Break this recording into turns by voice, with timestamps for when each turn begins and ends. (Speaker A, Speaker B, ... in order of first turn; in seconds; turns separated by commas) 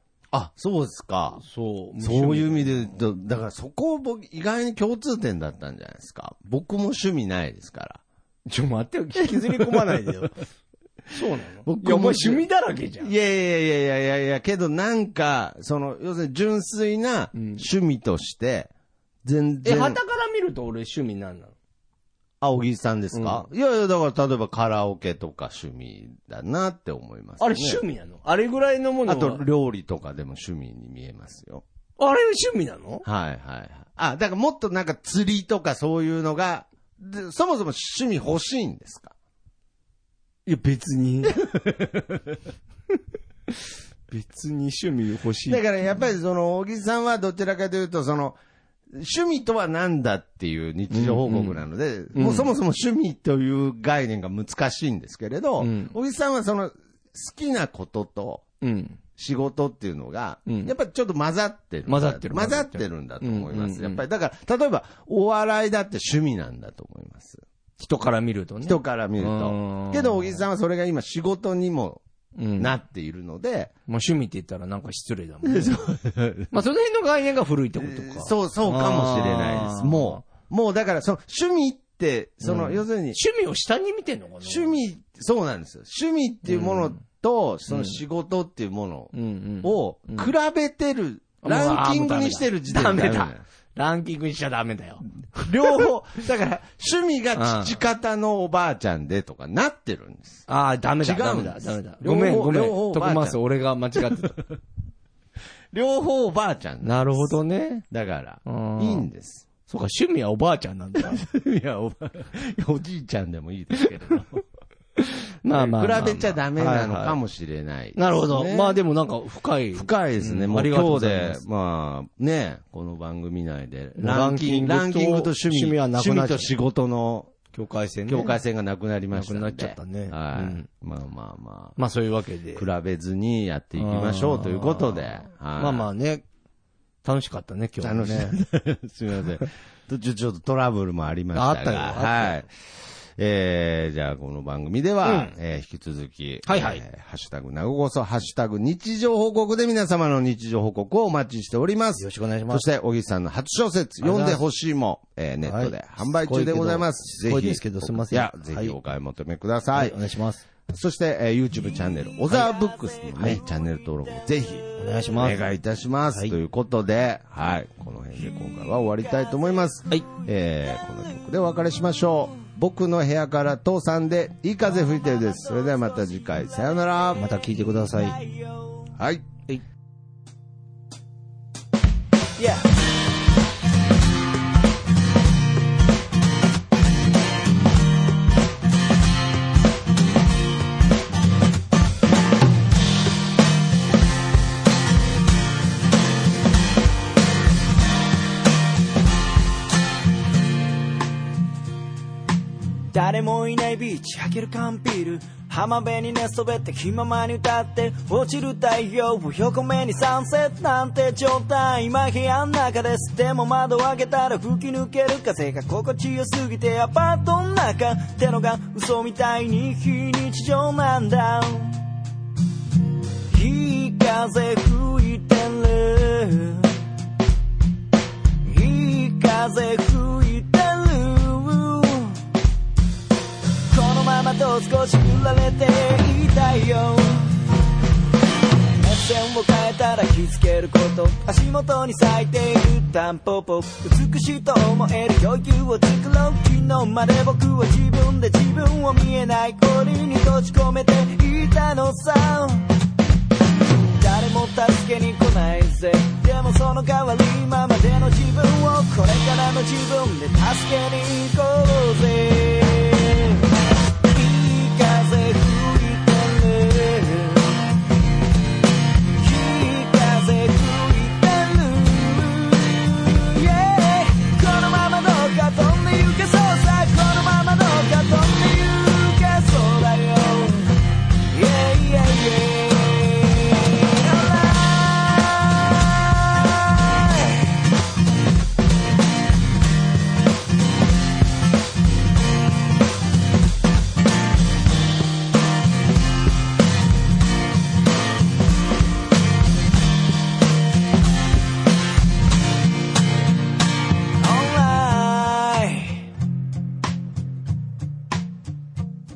Speaker A: 0.3-1.4, Speaker B: 1.4-2.9, Speaker A: 2.0-8.0, Speaker B: 8.5-10.4, Speaker A: 9.2-10.1, Speaker B: 11.1-13.1, Speaker A: 11.7-12.5, Speaker A: 13.0-18.7, Speaker B: 17.3-17.6, Speaker A: 19.2-20.0, Speaker B: 19.6-21.5, Speaker A: 22.4-27.8, Speaker B: 23.1-23.4, Speaker B: 27.4-29.4, Speaker A: 29.1-31.6, Speaker B: 32.0-33.0, Speaker A: 33.0-39.1, Speaker B: 40.5-41.4, Speaker A: 41.3-42.4, Speaker B: 44.1-46.0, Speaker A: 45.5-48.4, Speaker A: 48.9-58.4, Speaker B: 50.9-52.5, Speaker B: 55.6-55.9, Speaker B: 58.6-59.0, Speaker A: 59.1-67.4, Speaker B: 60.5-60.7, Speaker B: 61.9-64.0, Speaker B: 67.8-70.4, Speaker A: 68.6-72.0, Speaker B: 72.4-72.8, Speaker A: 72.6-73.7, Speaker B: 73.9-75.8, Speaker A: 75.4-76.5, Speaker B: 76.5-80.2, Speaker A: 77.8-83.2, Speaker B: 82.4-84.8, Speaker A: 84.4-93.4, Speaker B: 86.5-87.0, Speaker B: 87.7-88.0, Speaker B: 89.1-90.3, Speaker B: 91.4-95.9, Speaker A: 95.3-100.5, Speaker B: 97.4-97.8, Speaker B: 100.5-104.4, Speaker A: 101.0-103.4, Speaker A: 104.0-104.3, Speaker A: 105.7-107.4, Speaker B: 106.8-107.8, Speaker A: 107.9-109.5, Speaker B: 108.5-109.1, Speaker B: 109.7-111.2, Speaker A: 111.0-114.4, Speaker B: 115.0-117.2, Speaker A: 115.5-118.8, Speaker B: 118.0-121.4, Speaker A: 119.7-127.3, Speaker B: 124.0-126.5, Speaker B: 127.5-128.4, Speaker A: 128.1-131.8, Speaker B: 129.1-130.7, Speaker B: 131.8-132.7, Speaker A: 132.5-135.9, Speaker B: 133.8-136.2, Speaker B: 137.0-138.4, Speaker A: 137.8-160.0, Speaker B: 141.3-142.4, Speaker B: 145.0-145.4, Speaker B: 146.4-146.8, Speaker B: 152.0-152.6, Speaker B: 154.0-154.4, Speaker B: 155.4-158.8, Speaker B: 159.7-160.4, Speaker A: 160.7-164.6, Speaker C: 162.3-164.5, Speaker B: 164.8-165.5, Speaker A: 165.2-177.2, Speaker C: 174.8-177.2, Speaker B: 177.2-178.2, Speaker C: 177.8-178.9, Speaker A: 178.9-179.3, Speaker C: 182.4-182.6, Speaker C: 202.9-221.8, Speaker C: 223.3-226.8, Speaker C: 228.4-232.2, Speaker C: 233.7-237.4, Speaker C: 238.8-252.7, Speaker C: 253.8-263.5, Speaker C: 264.1-267.7, Speaker C: 269.2-287.4, Speaker C: 304.2-306.1